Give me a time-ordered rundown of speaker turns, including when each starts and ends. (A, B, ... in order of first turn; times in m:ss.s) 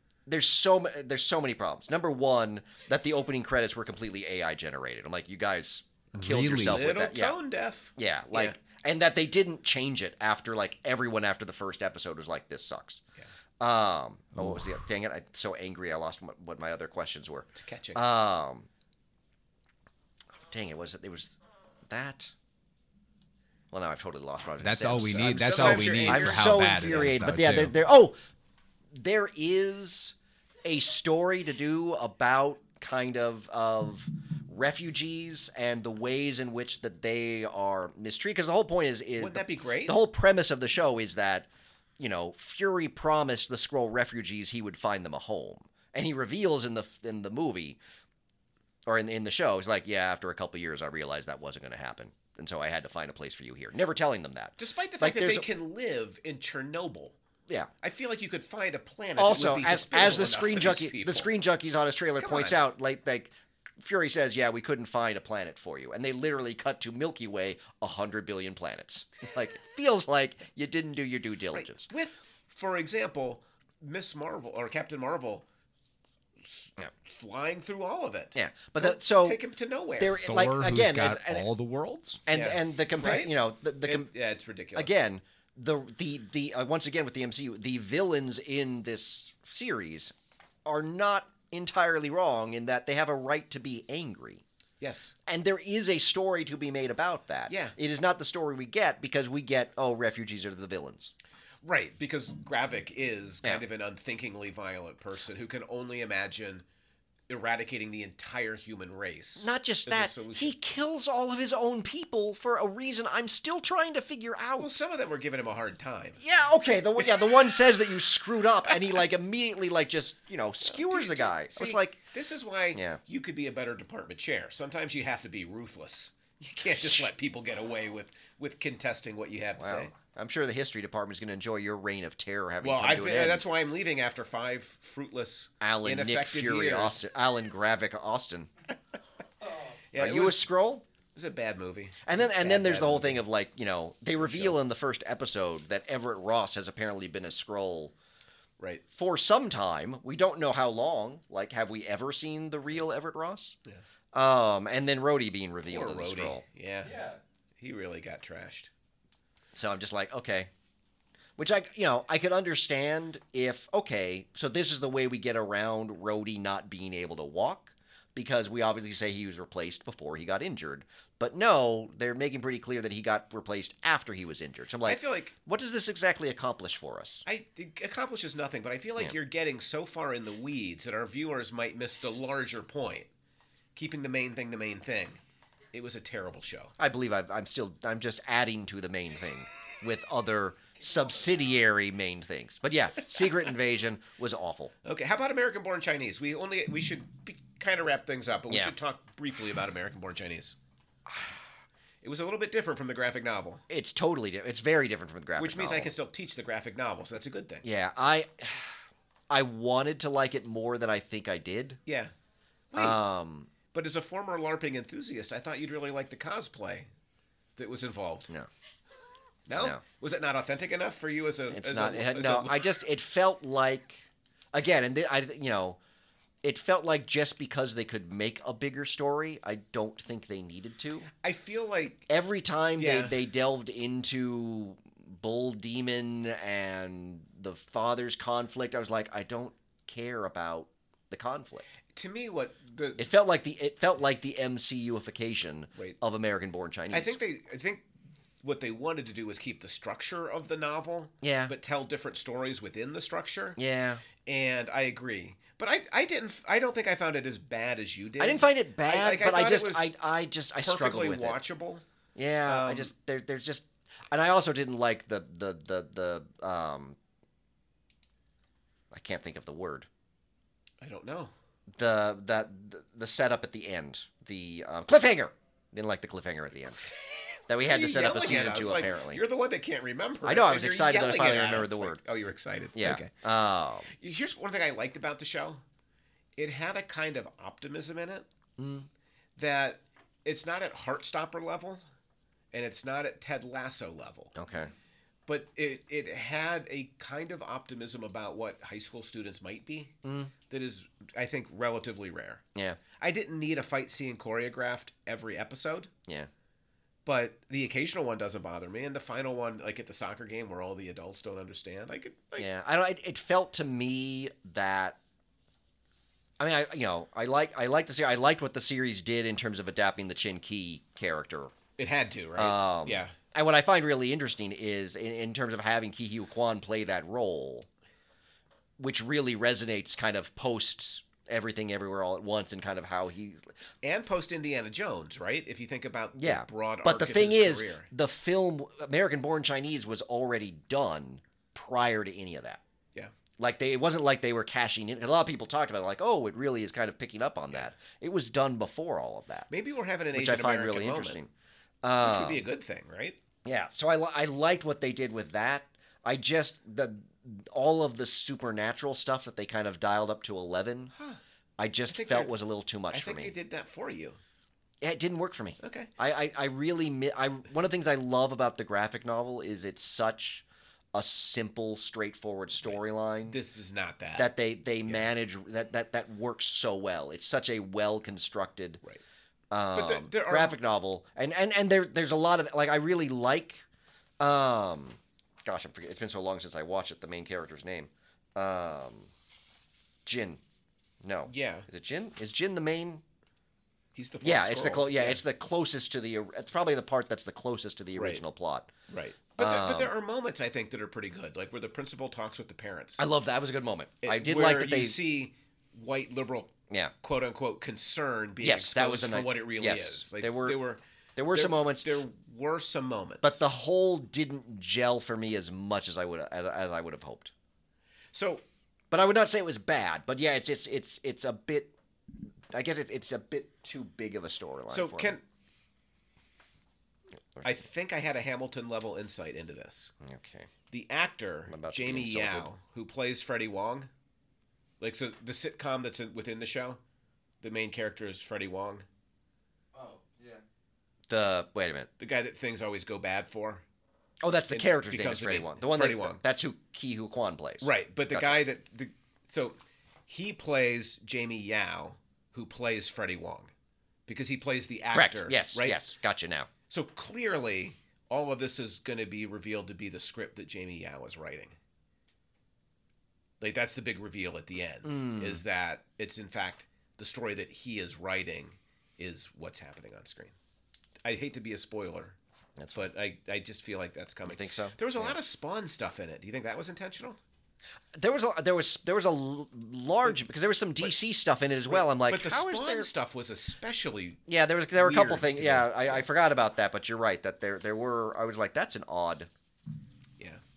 0:00.3-0:07.4 A
0:06.1-0:06.9 B
0:06.6-0:08.6 C
0:08.0-0:13.0 A
0:13.6-0:18.7 A
0:17.6-0:18.1 C
0:20.4-0:21.3 A
0:21.9-0:22.3 A
0:23.7-0:28.2 A
0:24.6-0:27.8 B
0:25.1-0:27.1 C
0:28.9-0:41.5 A
0:39.2-0:40.0 C
0:42.0-0:47.8 A
0:48.9-0:55.5 A
0:54.6-0:57.2 C
0:57.8-1:01.3 C
0:59.2-1:11.9 A
1:02.2-1:02.6 C
1:11.5-1:15.4 C
1:16.4-1:20.2 C
1:18.4-1:19.4 A
1:20.0-1:21.5 A
1:20.2-1:22.2 B
1:22.3-1:24.1 A
1:22.3-1:25.0 C
1:24.8-1:30.1 A
1:30.6-1:34.4 A
1:34.8-1:35.1 C
1:35.3-1:41.1 A
1:37.5-1:37.8 C
1:41.6-1:46.6 C
1:47.3-1:50.6 C
1:49.4-1:54.8 A
1:54.6-1:56.2 C
1:56.2-2:02.0 A
1:57.0-1:57.3 C
1:58.7-1:59.0 C
2:00.6-2:09.9 C
2:02.7-2:03.0 A
2:09.6-2:13.5 A
2:12.6-2:17.1 C
2:15.6-2:18.5 A
2:19.9-2:20.5 C
2:20.0-2:20.8 A
2:21.2-2:23.2 C
2:22.0-2:27.9 A
2:24.2-2:24.6 C
2:28.9-2:33.6 A
2:34.1-2:36.4 A
2:35.7-2:38.7 C
2:39.6-2:40.5 A
2:41.4-2:57.2 A
2:54.8-2:55.3 C
2:57.3-3:03.1 C
3:03.8-3:05.2 C
3:05.7-3:06.7 C
3:06.8-3:14.7 A
3:14.8-3:20.6 C
3:22.0-3:23.6 C
3:23.7-3:25.9 A
3:25.4-3:27.6 C
3:27.6-3:28.8 A
3:29.3-3:31.8 A
3:31.9-3:32.1 C
3:32.7-3:33.0 C
3:32.8-3:33.5 A
3:33.7-3:36.9 C
3:37.6-3:38.3 C
3:39.5-3:42.7 C
3:39.6-3:39.8 A
3:41.5-3:45.8 A
3:46.4-3:51.1 A
3:51.2-3:52.1 C
3:52.1-4:01.6 A
3:52.8-3:53.1 C
4:01.9-4:03.1 C
4:03.0-4:07.2 A
4:06.9-4:07.8 C
4:08.4-4:13.6 C
4:11.2-4:11.5 A
4:13.6-4:14.0 A
4:14.2-4:19.9 C
4:18.2-4:21.4 A
4:20.6-4:21.8 C
4:22.2-4:27.0 A
4:22.5-4:22.9 C
4:28.9-4:29.9 A
4:30.8-4:31.3 C
4:31.8-4:36.8 A
4:37.5-4:39.2 A
4:37.6-4:43.1 C
4:40.2-4:42.0 A
4:42.8-4:43.9 A
4:43.9-4:45.6 C
4:46.4-4:48.3 C
4:48.6-4:48.9 A
4:49.4-4:51.8 C
4:52.5-4:54.4 C
4:54.4-4:54.7 A
4:55.3-4:59.9 C
5:00.0-5:00.3 A
5:00.5-5:02.4 C
5:03.0-5:05.9 C
5:07.0-5:12.5 C
5:12.4-5:15.0 A
5:16.4-5:21.5 A
5:21.8-5:23.2 C
5:22.4-5:27.7 A
5:28.8-5:33.5 A
5:33.8-5:37.9 C
5:36.2-5:42.6 A
5:43.4-5:49.5 A
5:49.5-5:51.2 C
5:50.1-5:51.3 A
5:51.8-5:52.4 A
5:52.0-5:53.2 C
5:53.4-6:00.9 A
6:01.0-6:01.2 C
6:01.6-6:03.4 A
6:01.9-6:02.3 C
6:02.9-6:04.2 C
6:04.8-6:13.4 A
6:05.6-6:05.9 C
6:12.6-6:14.3 C
6:14.2-6:18.8 A
6:19.5-6:23.6 A
6:19.7-6:20.6 C
6:24.2-6:29.1 A
6:30.1-6:30.4 A
6:31.0-6:33.0 A
6:31.3-6:31.7 C
6:34.0-6:35.2 C
6:34.2-6:38.7 A
6:38.0-6:38.2 C
6:38.9-6:43.1 C
6:39.4-6:39.9 A
6:43.0-6:45.0 A
6:44.0-6:50.8 C
6:48.4-6:50.6 A
6:51.2-6:51.9 A
6:51.3-6:53.4 C
6:53.2-6:57.3 A
6:58.1-6:58.4 C
6:58.9-7:01.7 A
7:02.5-7:05.2 A
7:04.7-7:05.2 C
7:07.4-7:07.6 A
7:07.4-7:09.9 C
7:10.0-7:10.5 A
7:10.7-7:13.9 C
7:11.5-7:12.5 A
7:14.8-7:16.8 C
7:17.4-7:18.9 C
7:19.8-7:20.3 A
7:21.1-7:21.9 A
7:22.0-7:23.6 C
7:24.2-7:28.4 A
7:24.5-7:26.2 C
7:27.6-7:33.5 C
7:34.1-7:35.8 C
7:34.9-7:36.5 A
7:36.7-7:41.6 C
7:43.4-7:50.3 C
7:44.8-7:45.4 A
7:51.0-7:52.2 C
7:52.6-7:52.9 A
7:52.8-7:57.2 C
7:54.3-7:55.2 A
7:57.9-8:02.9 A
8:01.7-8:04.2 C
8:04.3-8:09.3 A
8:04.8-8:06.1 C